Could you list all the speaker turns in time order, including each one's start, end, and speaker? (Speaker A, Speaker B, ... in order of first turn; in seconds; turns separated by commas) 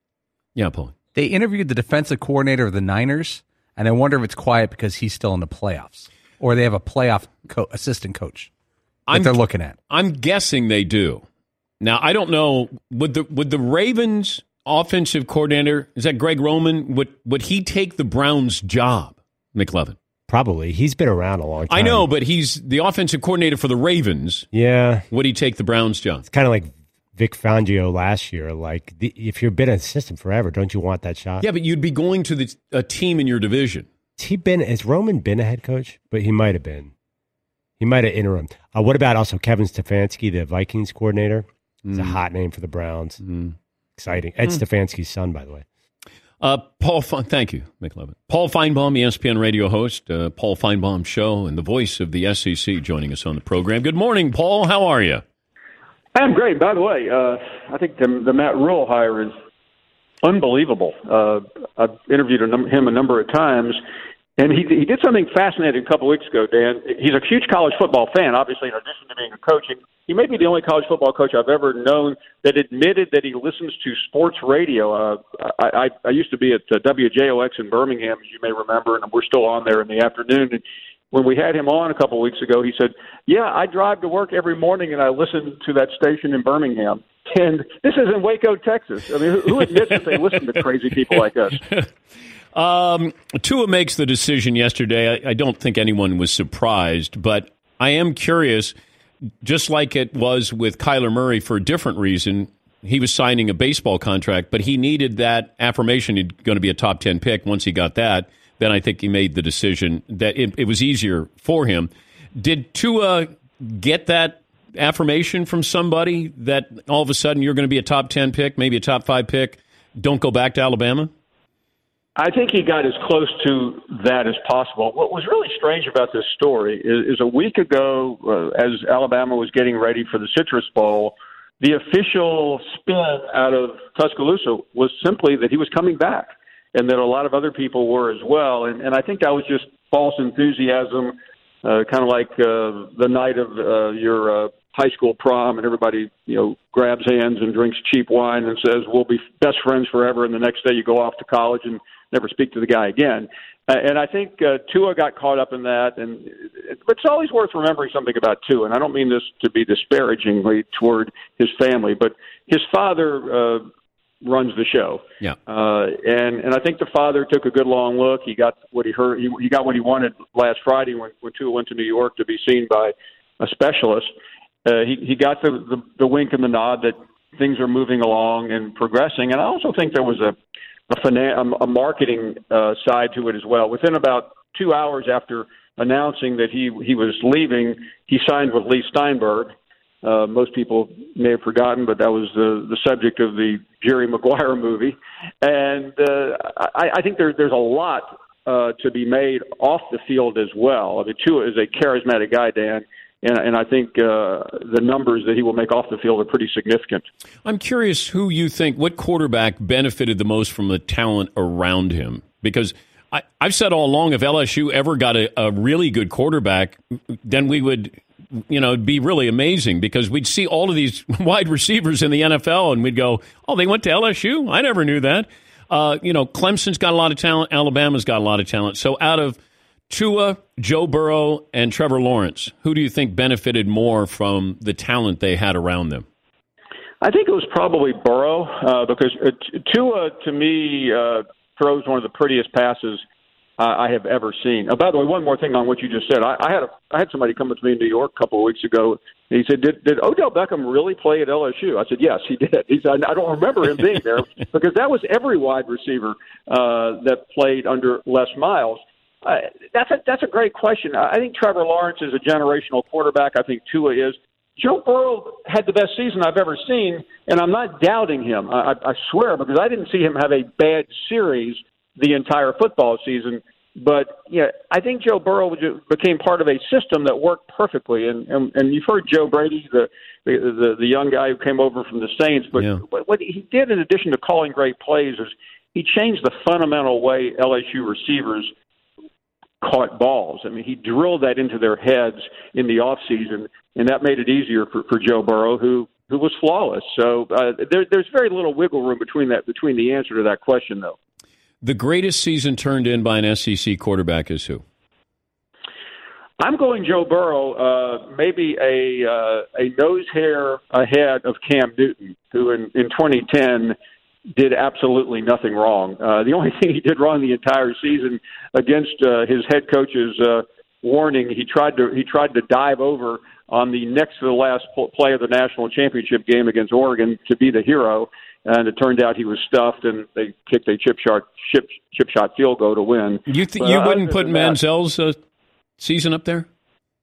Speaker A: 0.6-0.9, Speaker B: 1.1-8.5, Speaker A: 9.1-9.4, Speaker B: 9.1-9.8, Speaker A: 9.9-11.2, Speaker A: 11.8-20.0, Speaker C: 20.3-22.1, Speaker A: 21.7-24.5, Speaker C: 24.5-25.1, Speaker A: 25.1-26.2, Speaker C: 26.3-31.4, Speaker A: 31.4-33.9, Speaker C: 34.2-36.9, Speaker C: 37.8-43.2, Speaker A: 41.9-42.2, Speaker A: 43.2-43.5, Speaker C: 44.0-45.6, Speaker A: 46.4-55.2, Speaker D: 56.1-59.3, Speaker D: 60.2-63.8, Speaker D: 64.4-91.6, Speaker A: 92.5-98.7, Speaker A: 99.4-121.1, Speaker D: 122.2-163.7, Speaker D: 164.2-174.1, Speaker D: 174.6-180.3, Speaker D: 180.9-207.1, Speaker A: 207.4-218.0, Speaker A: 218.5-229.4, Speaker A: 229.9-236.1, Speaker D: 237.0-243.0, Speaker D: 243.6-288.5, Speaker D: 289.6-301.0, Speaker A: 301.6-304.6, Speaker D: 306.4-313.8, Speaker D: 314.3-334.6, Speaker A: 333.3-335.2, Speaker A: 335.8-336.5